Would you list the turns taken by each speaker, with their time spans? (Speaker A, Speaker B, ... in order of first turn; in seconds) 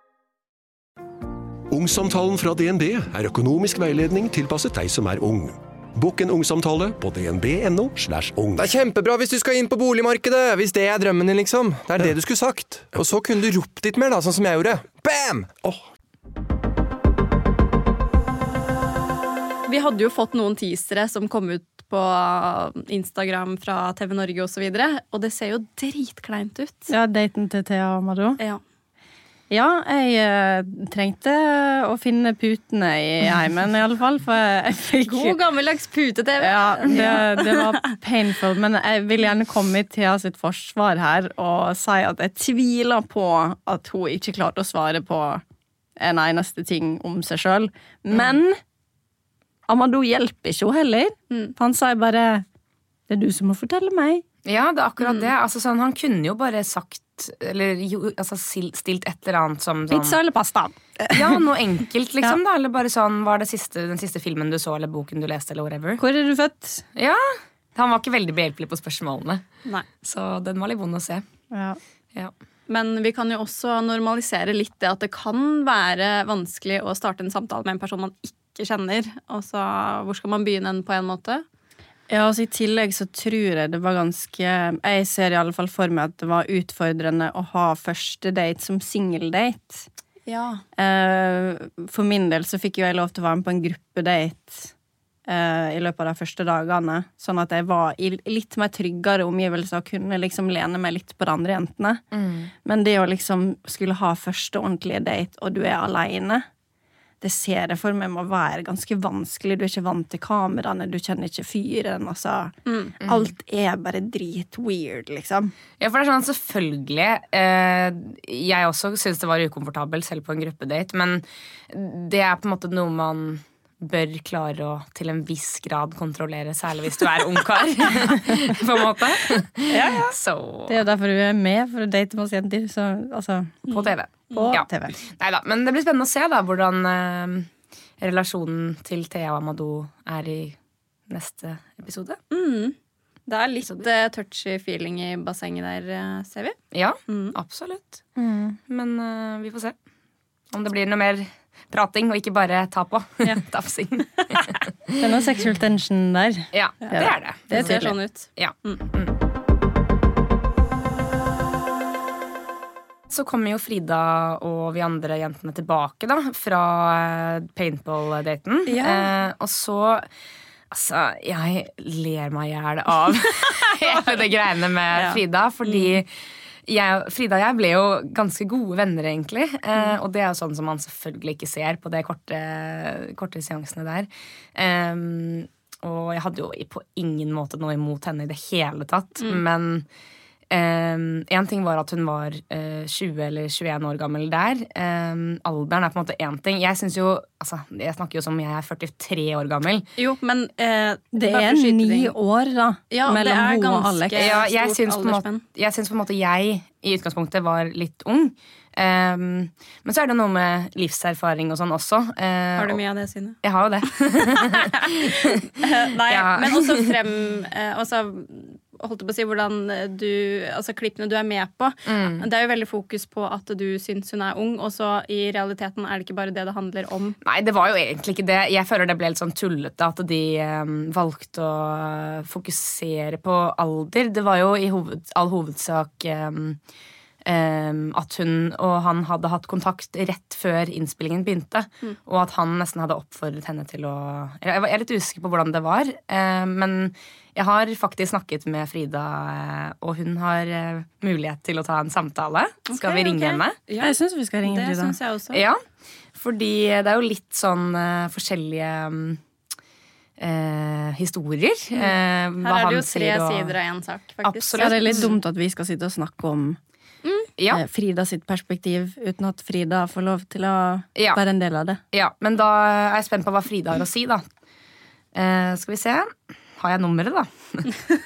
Speaker A: 1.7-8.7
Speaker B: 8.6-15.8
Speaker C: 19.7-26.9, 35.0-38.0, 55.0-55.3, 72.7-81.4, 90.3-90.6, 112.7-113.0, 129.7-130.1, 133.7-134.5, 142.3-142.8, 143.3-146.6, 147.1-147.4, 156.8-158.8, 168.7-169.1, 173.4-174.2, 174.9-176.0, 200.0-202.1, 202.9-205.4, 212.6-213.4, 214.2-227.2, 252.7-255.4, 261.7-265.1
Speaker D: 26.9-28.4, 29.5-35.4, 36.4-45.4, 46.0-48.6, 49.7-52.4, 53.1-54.2, 59.9-61.4, 66.0-66.8, 71.5-71.8, 82.1-89.9, 90.8-94.7, 95.2-102.0, 102.6-106.4, 107.2-115.5, 130.7-133.6, 134.3-135.0, 148.2-148.6, 155.0-157.8, 201.1-204.3, 253.8-254.9, 264.6-266.6, 267.5-271.8
Speaker E: 54.4-60.2, 61.1-66.0, 67.0-69.4, 70.0-71.2, 102.1-102.5, 115.8-130.8, 133.7-137.5, 138.0-140.6, 141.1-142.2, 146.7-148.0, 148.7-149.7, 150.5-155.0, 156.5-159.1, 163.1-170.1, 170.7-176.1, 176.7-189.8, 190.5-199.9, 204.2-212.8, 213.4-215.3, 216.1-216.9, 221.9-222.3, 227.2-236.6, 237.2-253.6, 255.3-255.6, 256.1-259.2, 260.2-263.6, 264.2-265.1, 270.9-271.2, 271.9-274.2, 275.1-277.7